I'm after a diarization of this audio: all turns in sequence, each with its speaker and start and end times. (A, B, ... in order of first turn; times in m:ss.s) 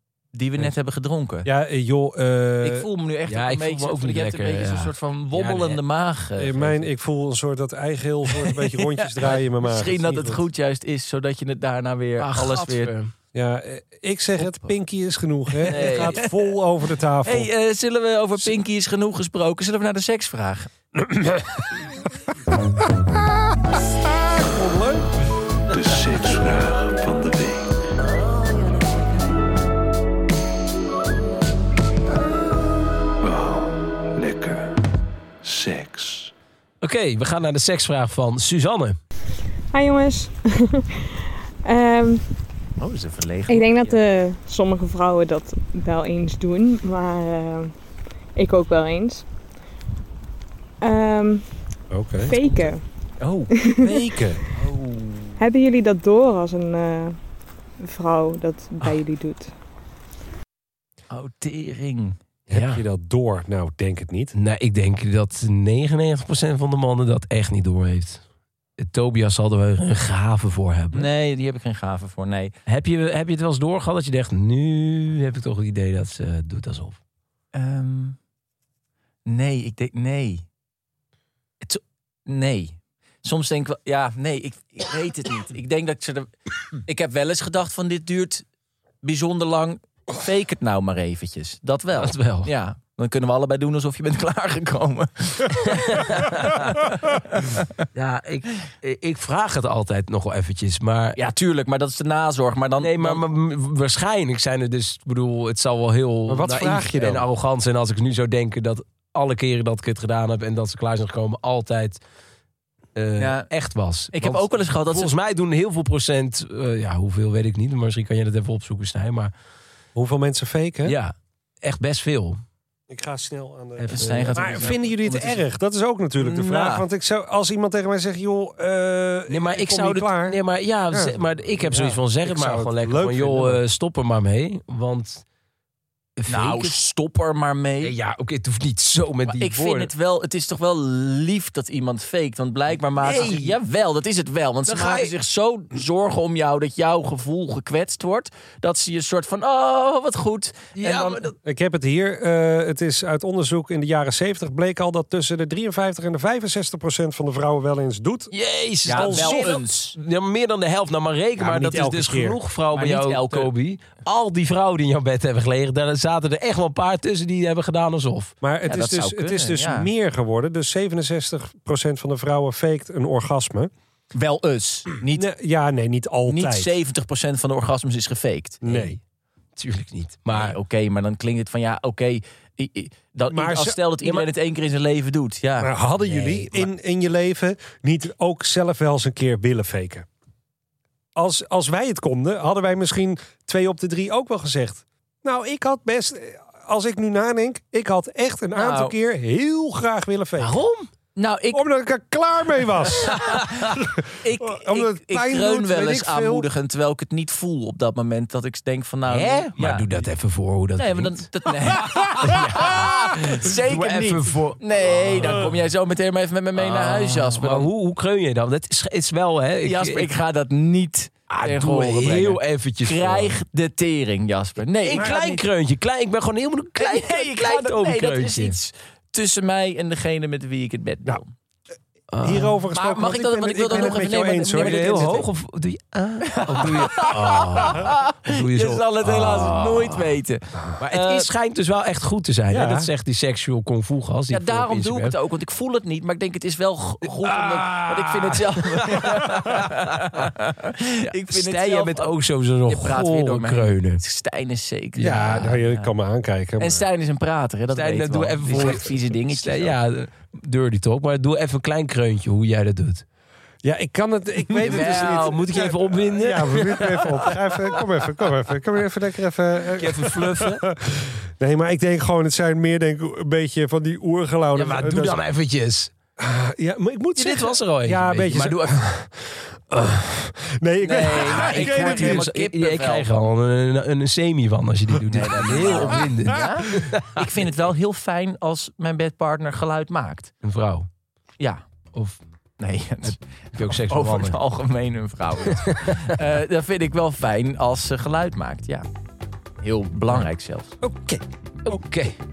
0:00.3-0:01.5 A
0:01.4-0:02.9 B
0:02.6-0:06.9 A
0:03.3-0:05.8 C
0:06.4-0:10.4 B
0:08.4-0:12.9 A
0:12.2-0:13.1 C
0:13.3-0:17.5 B
0:15.6-0:16.5 A
0:15.7-0:16.1 C
0:17.2-0:20.7 A
0:21.0-0:22.1 B
0:23.0-0:25.1 B
0:25.7-0:27.8 D
0:33.2-0:34.7 D
0:35.4-0:36.3 D
0:36.8-0:39.0 C
0:39.7-0:42.2 E
0:42.8-0:44.0 A
0:43.5-0:47.7 E
0:48.4-0:49.3 E
0:50.8-0:51.5 E
0:51.9-0:52.4 B
0:52.2-0:52.8 E
0:53.2-0:53.5 A
0:53.5-0:54.1 E
0:53.8-0:54.4 B
0:54.5-0:55.4 A
0:55.4-0:57.2 E
0:57.8-0:59.5 E
1:01.1-1:02.2 A
1:02.5-1:02.8 C
1:02.5-1:04.3 B
1:04.4-1:08.2 C
1:08.8-1:11.1 C
1:10.9-1:12.5 A
1:12.7-1:17.0 C
1:17.5-1:18.2 A
1:19.3-1:20.4 A
1:21.6-1:26.3 A
1:26.8-1:28.5 A
1:29.0-1:37.7 A
1:32.0-1:32.5 C
1:35.5-1:36.9 C
1:37.9-1:41.2 C
1:41.2-1:43.2 A
1:42.8-1:52.0 C
1:46.3-1:47.3 B
1:53.0-1:59.3 C
1:53.2-1:53.5 A
1:54.1-1:55.1 A
2:00.0-2:01.0 B
2:00.9-2:02.4 C
2:02.9-2:10.4 B
2:03.8-2:04.8 C
2:03.9-2:05.5 A
2:06.2-2:06.8 A
2:09.3-2:15.2 C
2:10.9-2:13.6 B
2:16.2-2:16.8 C
2:16.3-2:18.0 A
2:17.8-2:19.9 C
2:19.2-2:31.3 A
2:23.0-2:23.6 C
2:24.7-2:25.1 C
2:30.8-2:31.4 C
2:31.4-2:38.3 B
2:38.3-2:48.3 C
2:38.8-2:39.6 B
2:38.8-2:40.0 A
2:41.4-2:42.4 B
2:42.7-2:43.5 A
2:48.4-2:53.7 B
2:48.7-2:49.9 A
2:54.1-2:55.3 A
2:55.1-2:56.7 B
2:56.3-2:58.9 A
2:58.6-2:59.0 B
2:59.6-3:00.6 C
3:00.3-3:06.7 A
3:03.3-3:03.8 B
3:05.6-3:10.1 B
3:11.2-3:20.6 B
3:18.6-3:19.0 A
3:20.4-3:20.9 C
3:21.2-3:21.6 A
3:21.5-3:26.5 B
3:22.9-3:29.9 A
3:29.1-3:31.3 C
3:30.8-3:37.7 A
3:31.8-3:35.5 C
3:31.9-3:32.4 B
3:36.6-3:40.1 C
3:39.6-3:45.3 A
3:41.3-3:43.4 C
3:44.8-3:48.6 C
3:44.9-3:45.4 B
3:46.8-3:51.3 A
3:52.1-3:52.6 C
3:52.2-3:55.2 B
3:52.7-3:55.3 A
3:54.6-4:00.1 C
3:56.3-4:01.3 A
4:00.8-4:05.1 C
4:02.5-4:02.9 B
4:04.3-4:12.1 A
4:07.0-4:09.8 C
4:11.2-4:14.0 C
4:12.7-4:15.9 A
4:15.0-4:16.8 B
4:15.0-4:15.3 C
4:16.6-4:19.8 A
4:17.7-4:23.0 C
4:23.6-4:35.2 B
4:24.6-4:27.4 C
4:24.6-4:25.7 A
4:29.7-4:30.7 C
4:34.6-4:35.9 C
4:36.2-4:42.2 B
4:37.2-4:38.7 C
4:40.8-4:43.1 A
4:41.1-4:47.3 C
4:45.1-4:50.3 A
4:45.6-4:46.1 B
4:50.4-4:50.9 C
4:51.9-4:52.2 C
4:52.6-4:58.8 A
4:53.0-4:54.4 C
4:55.7-4:56.1 C
4:59.6-5:00.7 A
5:00.8-5:01.2 B
5:01.6-5:02.2 C